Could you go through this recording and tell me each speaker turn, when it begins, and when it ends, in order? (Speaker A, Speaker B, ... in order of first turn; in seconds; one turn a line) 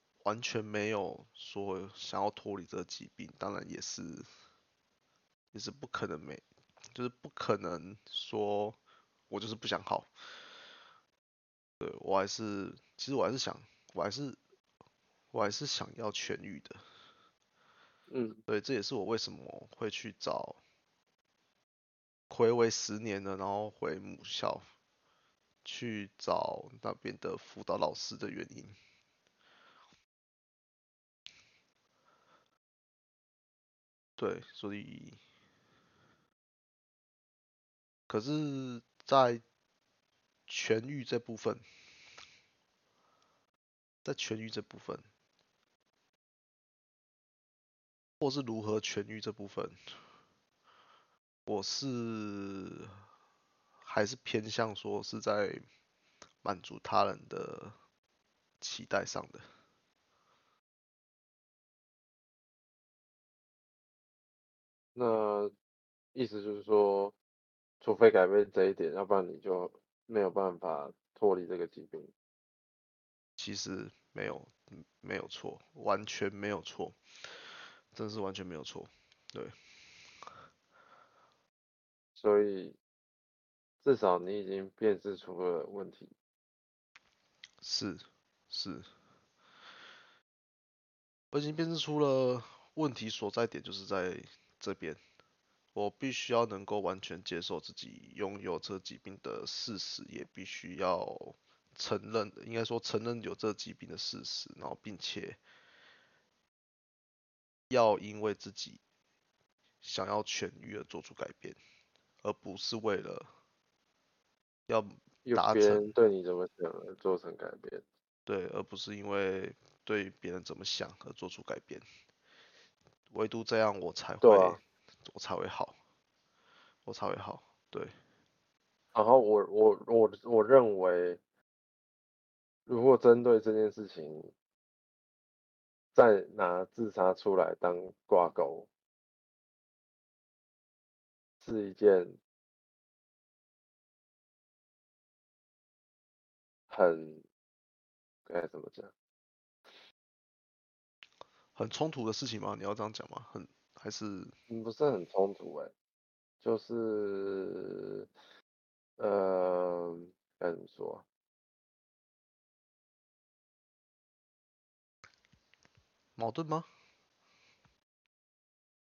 Speaker A: 0.2-4.2
Speaker A: 5.5-6.4
Speaker A: 6.9-8.8
Speaker A: 9.3-10.1
Speaker A: 11.8-14.4
Speaker A: 15.3-16.8
Speaker B: 18.1-18.4
Speaker A: 18.5-20.6
Speaker A: 22.3-24.6
Speaker A: 25.6-28.7
Speaker A: 34.2-35.2
Speaker A: 38.1-39.4
Speaker A: 40.5-41.6
Speaker A: 44.0-45.0
Speaker A: 48.2-49.8
Speaker A: 51.5-52.9
Speaker A: 53.8-55.6
Speaker A: 56.4-57.7
Speaker A: 58.6-59.4
Speaker B: 64.9-65.5
Speaker B: 66.1-67.1
Speaker B: 67.8-72.1
Speaker A: 73.4-77.0
Speaker A: 77.9-79.5
Speaker B: 82.2-82.8
Speaker B: 83.8-86.1
Speaker A: 87.6-88.9
Speaker A: 91.3-95.0
Speaker A: 95.7-105.4
Speaker A: 107.7-108.8
Speaker A: 109.8-111.6
Speaker A: 112.2-113.3
Speaker A: 114.7-115.9
Speaker B: 115.2-117.8
Speaker A: 118.3-121.8
Speaker A: 123.1-125.7
Speaker B: 124.2-124.6
Speaker A: 126.8-127.9
Speaker B: 128.9-131.2
Speaker B: 132.7-134.3
Speaker B: 135.9-138.7
Speaker B: 141.4-142.2
Speaker B: 146.7-147.2
Speaker B: 148.2-148.9
Speaker A: 151.6-154.3
Speaker B: 154.5-155.7
Speaker B: 156.4-158.1
Speaker B: 159.0-161.0
Speaker A: 166.2-166.7